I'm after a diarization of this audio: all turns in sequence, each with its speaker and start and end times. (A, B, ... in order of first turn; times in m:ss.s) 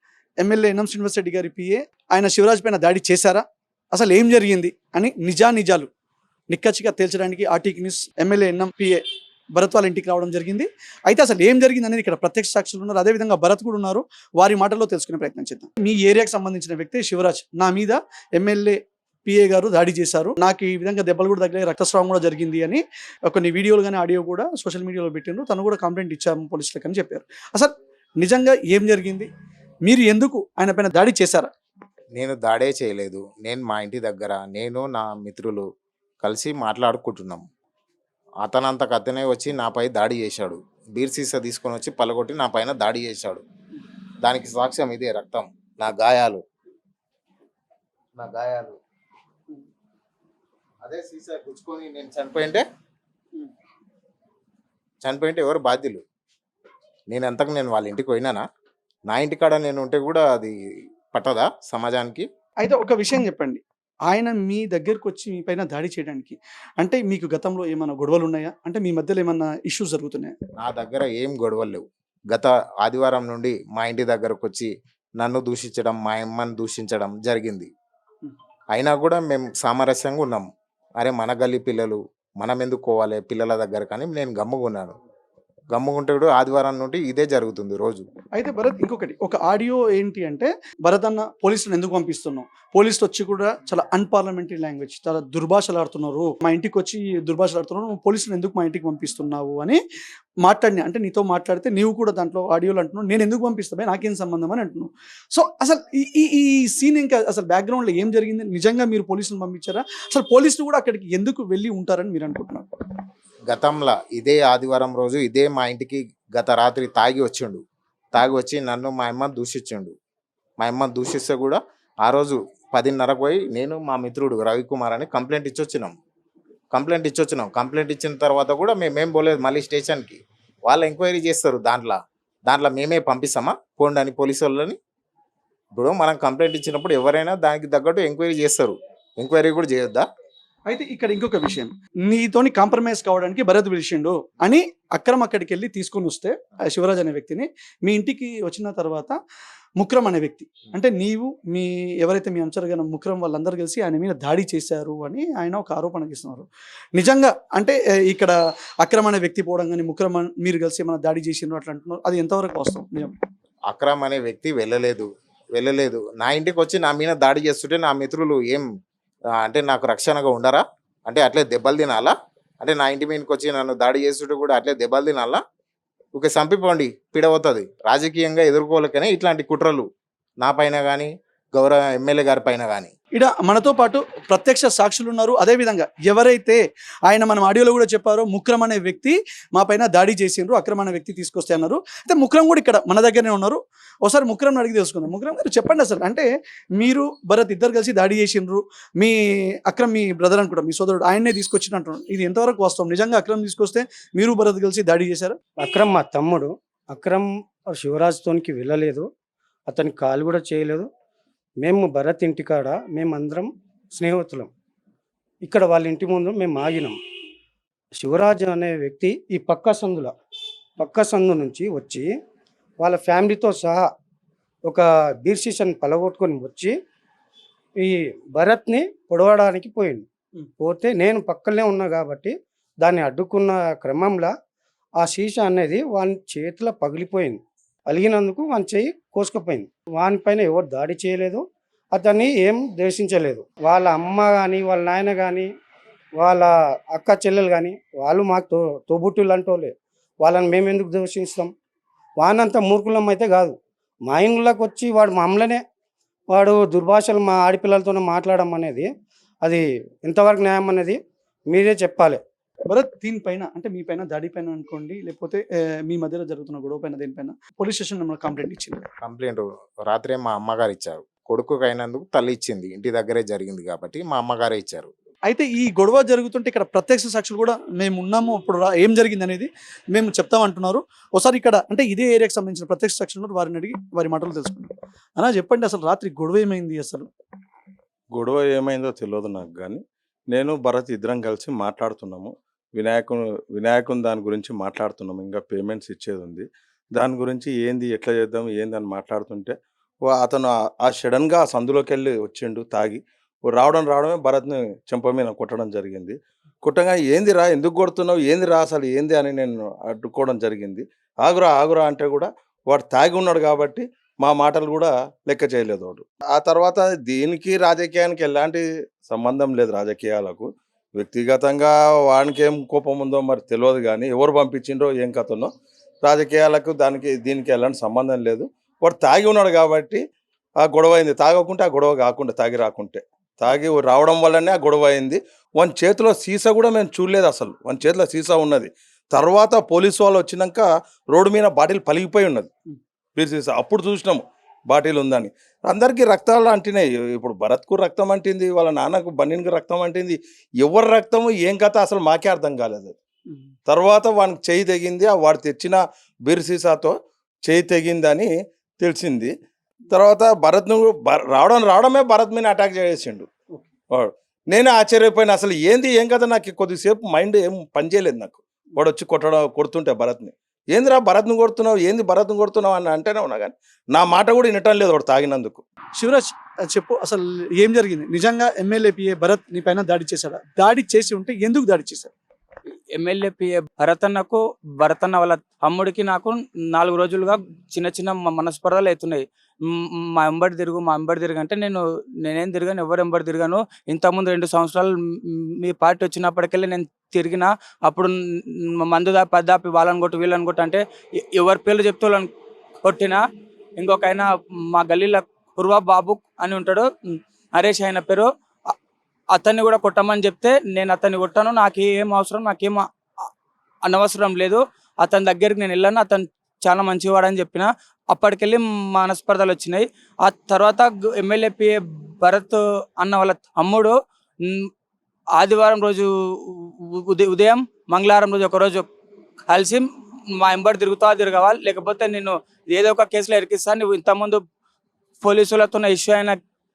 0:00.4-0:05.9 A
0:06.5-0:09.0 A
0:09.5-0:29.3 A
0:29.8-0:31.5 A
0:32.2-0:35.7 B
0:36.2-0:37.5 B
0:38.4-0:43.4 B
0:44.2-0:46.4 B
0:48.2-0:48.8 B
0:50.8-0:52.6 B
0:55.0-0:56.0 B
0:57.1-0:58.4 B
0:59.1-1:00.6 B
1:01.1-1:02.3 B
1:02.6-1:10.4 A
1:10.6-1:17.7 B
1:18.7-1:20.5 B
1:21.0-1:25.0 B
1:25.7-1:28.1 B
1:28.4-1:39.8 A
1:40.4-1:52.7 A
1:53.5-1:57.6 B
1:58.2-1:59.9 B
2:00.6-2:06.0 B
2:06.7-2:14.8 B
2:15.8-2:20.1 B
2:20.7-2:29.2 A
2:29.8-2:43.1 A
2:43.7-2:48.7 B
2:49.4-2:55.4 B
2:56.2-2:59.9 B
3:00.4-3:02.9 B
3:03.1-3:25.4 A
3:25.6-3:29.1 C
3:29.7-3:30.9 C
3:31.6-3:34.5 C
3:35.4-3:37.0 C
3:38.0-3:40.1 C
3:40.8-3:42.1 C
3:42.8-3:43.9 C
3:44.7-3:46.8 C
3:47.8-3:50.0 C
3:50.6-3:54.3 C
3:55.0-4:05.5 C
4:06.2-4:11.5 C
4:12.2-4:13.6 C
4:14.1-4:15.6 C
4:16.3-4:18.9 C
4:19.4-4:21.0 C
4:21.5-4:22.2 C
4:22.7-4:28.9 A
4:29.0-4:34.9 B
4:35.3-4:47.1 A
4:48.2-4:49.8 D
4:50.3-4:59.6 D
5:00.1-5:25.5 D
5:26.0-5:30.0 D
5:30.6-5:42.5 D
5:43.2-5:53.0 D
5:53.7-5:59.3 D
5:59.9-6:03.3 D
6:03.9-6:15.6 D
6:16.0-6:22.1 A
6:23.0-6:40.8 E
6:41.3-6:42.3 E
6:42.8-6:43.2 E
6:43.8-6:48.3 E
6:49.3-6:52.8 E
6:53.9-7:04.7 E
7:05.4-7:08.9 E
7:09.5-7:09.9 E
7:10.4-7:14.4 E
7:15.2-7:16.4 E